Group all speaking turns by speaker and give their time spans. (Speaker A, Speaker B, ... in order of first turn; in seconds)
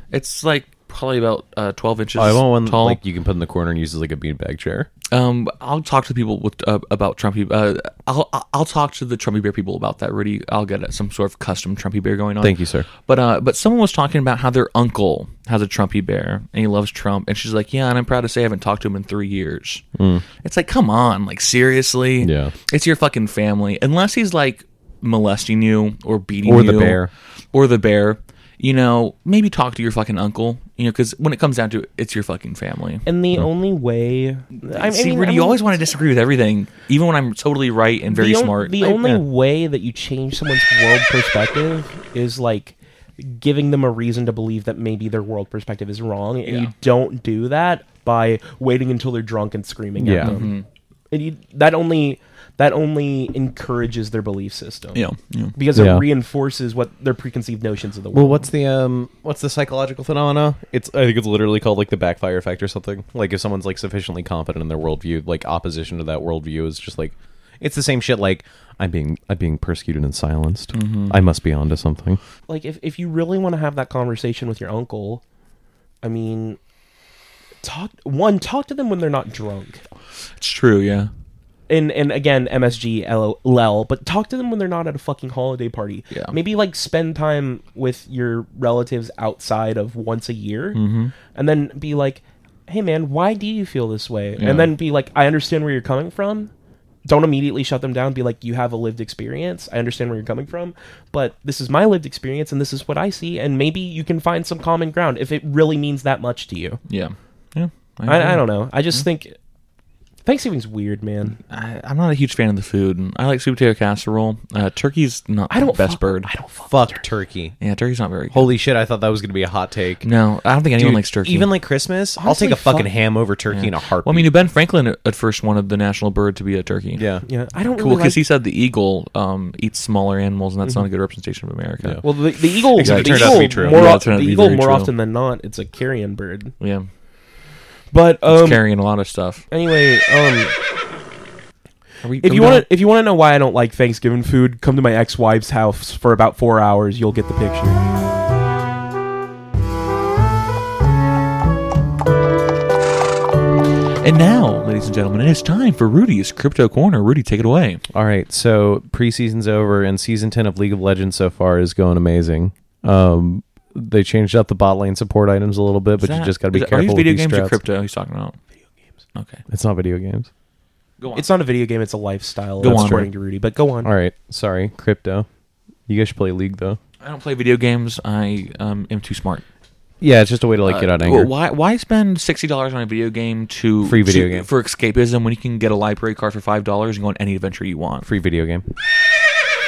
Speaker A: 0.1-3.0, 5.1-19.8, 20.4-33.0, 34.6-39.2, 46.5-46.7, 50.2-50.6, 54.9-55.5, 70.7-71.2, 80.4-81.1, 90.7-91.1, 94.4-94.7, 106.9-109.0, 111.5-116.3, 117.6-118.5, 120.0-121.5, 123.5-127.0, 127.8-132.2, 132.8-134.9, 136.6-136.9, 138.3-139.4, 142.0-142.7, 154.0-157.8, 166.0-168.4, 169.1-169.4, 171.0-171.2, 172.6-173.1, 177.0-179.4, 180.6-188.1
Speaker B: 2.1-4.9, 12.4-12.9, 19.9-20.2, 22.2-22.5, 26.4-27.1, 50.0-50.4, 55.7-56.1, 58.1-72.2, 116.7-117.5, 118.3-120.0, 120.8-124.3, 127.0-127.2, 131.8-132.1, 132.7-133.8, 157.9-167.6, 169.5-170.3, 173.8-175.3, 175.9-176.8, 180.0-181.3, 183.8-184.5, 188.0-188.6
Speaker C: 33.0-35.6, 38.1-50.5, 51.1-55.0, 55.5-58.5, 72.5-75.2, 76.0-76.6, 77.6-79.8, 81.7-96.5, 97.0-106.8, 108.1-109.3, 110.2-111.4, 115.5-117.0, 122.2-122.9, 127.3-128.2, 132.0-136.6, 137.9-138.6, 139.5-140.5, 142.2-147.8, 171.1-173.9